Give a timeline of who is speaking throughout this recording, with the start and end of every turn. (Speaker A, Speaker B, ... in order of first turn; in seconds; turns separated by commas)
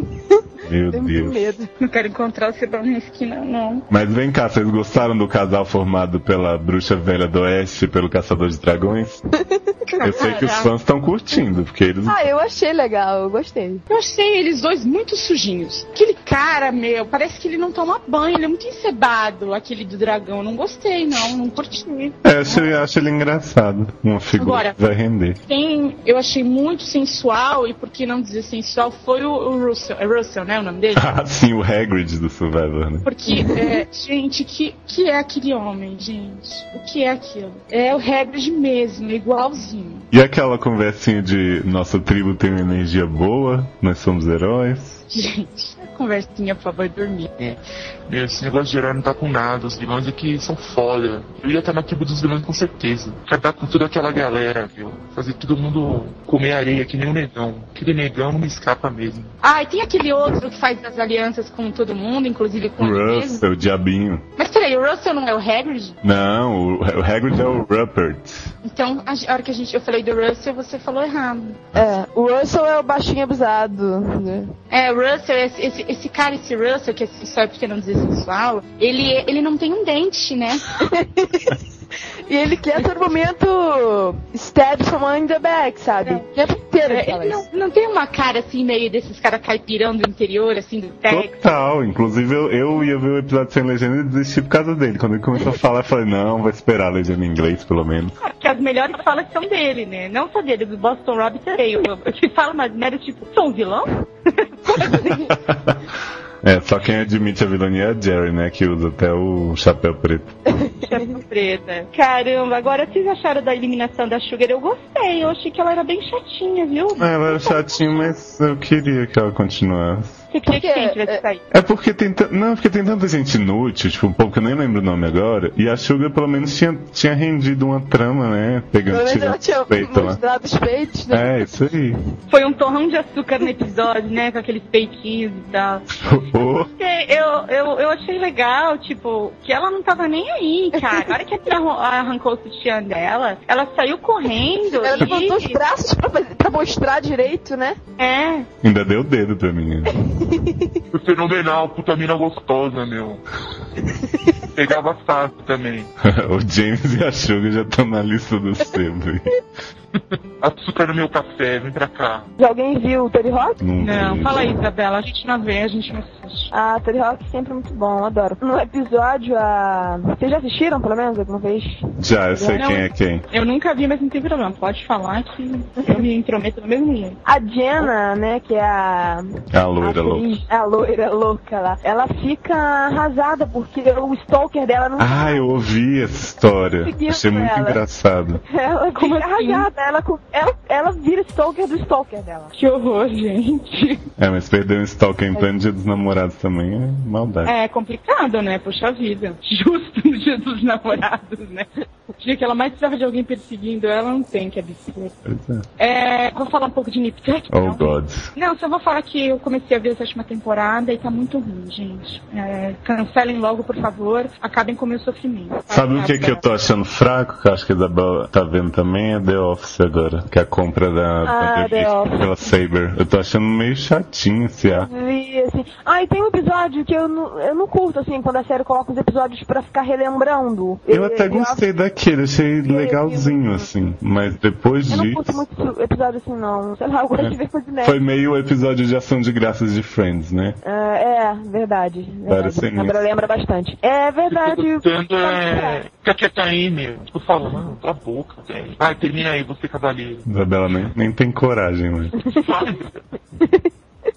Speaker A: 0.3-1.7, Speaker B: 0.6-1.5, Speaker C: 1.8-3.8, Speaker B: 3.9-9.2, Speaker C: 10.0-10.7, Speaker B: 10.0-12.2, Speaker A: 12.1-13.8, Speaker C: 13.9-22.6, Speaker B: 22.2-25.4, Speaker C: 24.4-24.7, Speaker C: 25.5-31.0, Speaker B: 30.9-33.0, Speaker C: 33.0-40.0, Speaker B: 40.1-45.0, Speaker C: 45.1-47.3, Speaker D: 47.4-59.3, Speaker C: 59.4-63.4, Speaker B: 62.8-64.2, Speaker C: 64.4-66.0, Speaker B: 66.0-68.5, Speaker C: 68.6-71.6, Speaker A: 71.7-74.5, Speaker C: 74.7-80.7, Speaker A: 80.8-81.5, Speaker A: 82.3-87.4, Speaker C: 86.8-91.3, Speaker B: 91.1-98.1, Speaker E: 98.4-103.8, Speaker B: 106.4-110.4, Speaker C: 110.9-111.8, Speaker E: 111.3-116.9, Speaker C: 112.5-112.7, Speaker B: 117.0-120.2, Speaker A: 120.5-121.2, Speaker C: 120.5-121.4, Speaker B: 121.5-130.2, Speaker A: 128.9-131.8, Speaker B: 131.1-132.0, Speaker C: 132.3-135.8, Speaker E: 132.6-133.3, Speaker E: 134.3-135.8, Speaker B: 136.0-136.7, Speaker C: 136.8-137.1, Speaker E: 136.8-140.7, Speaker A: 140.8-141.1, Speaker E: 141.2-145.3, Speaker C: 144.2-145.4, Speaker A: 144.8-147.8, Speaker E: 148.0-148.4, Speaker B: 148.6-149.9, Speaker A: 150.2-150.6, Speaker D: 150.9-153.2, Speaker D: 154.6-155.9, Speaker B: 156.0-159.3, Speaker D: 160.4-162.3, Speaker A: 162.4-163.6, Speaker B: 163.6-164.5, Speaker E: 163.9-166.4, Speaker A: 166.5-171.8, Speaker B: 172.0-173.2, Speaker A: 172.4-172.7, Speaker E: 173.3-177.1, Speaker A: 177.2-179.3, Speaker B: 179.5-180.4, Speaker A: 179.8-185.4, Speaker B: 185.0-188.4, Speaker A: 186.8-187.8, Speaker A: 188.4-192.5, Speaker E: 192.6-193.9, Speaker B: 194.2-197.5, Speaker E: 197.5-201.6, Speaker E: 202.2-205.1, Speaker B: 205.2-205.6, Speaker E: 205.8-207.8, Speaker B: 207.5-208.3, Speaker E: 208.4-216.3, Speaker B: 215.7-224.9, Speaker A: 221.2-222.4, Speaker A: 224.7-231.6, Speaker B: 230.9-235.4, Speaker A: 232.6-233.7, Speaker A: 234.9-238.0, Speaker B: 237.2-240.6, Speaker A: 240.6-245.8, Speaker B: 242.3-243.0, Speaker D: 244.3-250.2, Speaker B: 250.2-252.1, Speaker D: 252.3-253.0, Speaker A: 253.4-253.7